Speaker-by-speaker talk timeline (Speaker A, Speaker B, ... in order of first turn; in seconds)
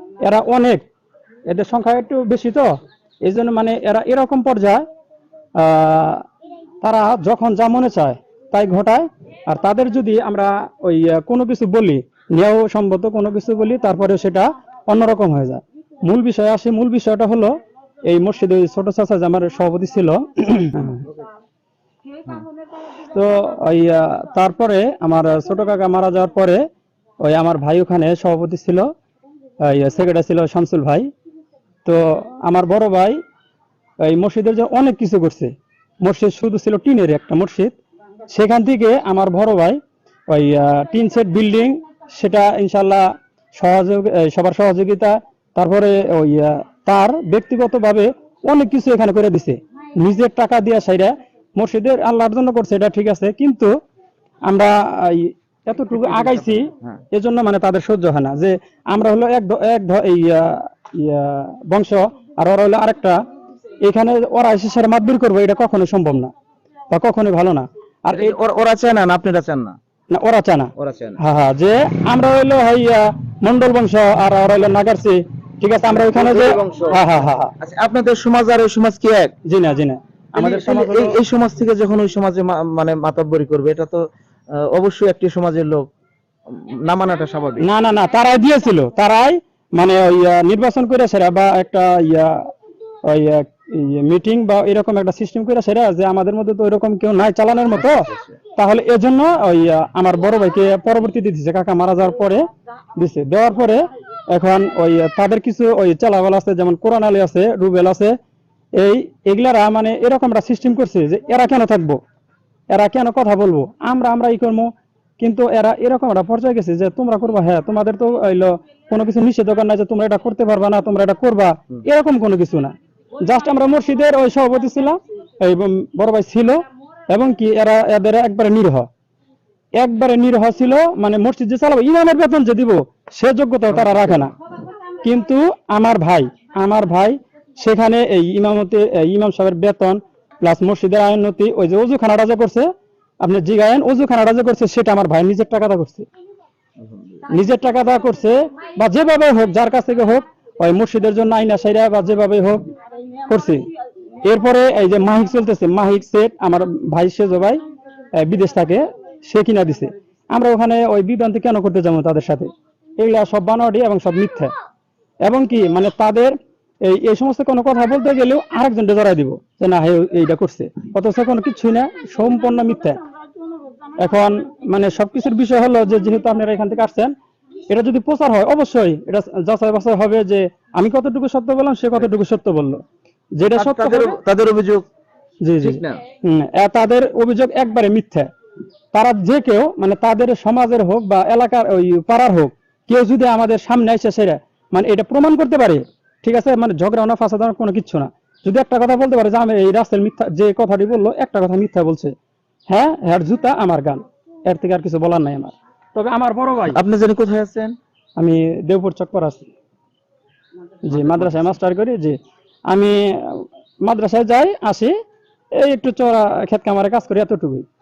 Speaker A: 0.2-0.9, 1.5-4.9, 5.6-6.2, 6.8-21.1, 23.1-26.7, 27.2-28.9, 29.6-31.1, 31.9-33.2, 34.0-37.8, 38.3-53.7, 54.5-63.2, 63.8-66.3, 66.9-68.3, 70.1-77.5, 79.5-81.2, 87.6-92.5, 93.1-102.5, 103.0-108.2, 108.8-112.0, 112.7-128.9, 129.7-134.3, 135.0-146.1, 147.3-152.7, 153.3-153.7, 154.2-157.6, 158.1-164.5, 165.2-173.0, 174.0-177.2, 177.7-182.8, 183.3-184.2, 185.4-188.3, 188.9-202.2, 202.7-206.8, 208.2-209.5, 210.9-214.9, 215.5-217.7
Speaker B: 68.1-69.8, 70.8-71.2, 76.0-77.0, 77.6-79.3, 80.4-84.1, 84.6-85.9, 86.9-87.7, 97.8-98.4, 133.8-134.2, 146.8-147.2, 183.5-184.8, 185.6-186.0, 206.7-207.8, 210.9-211.4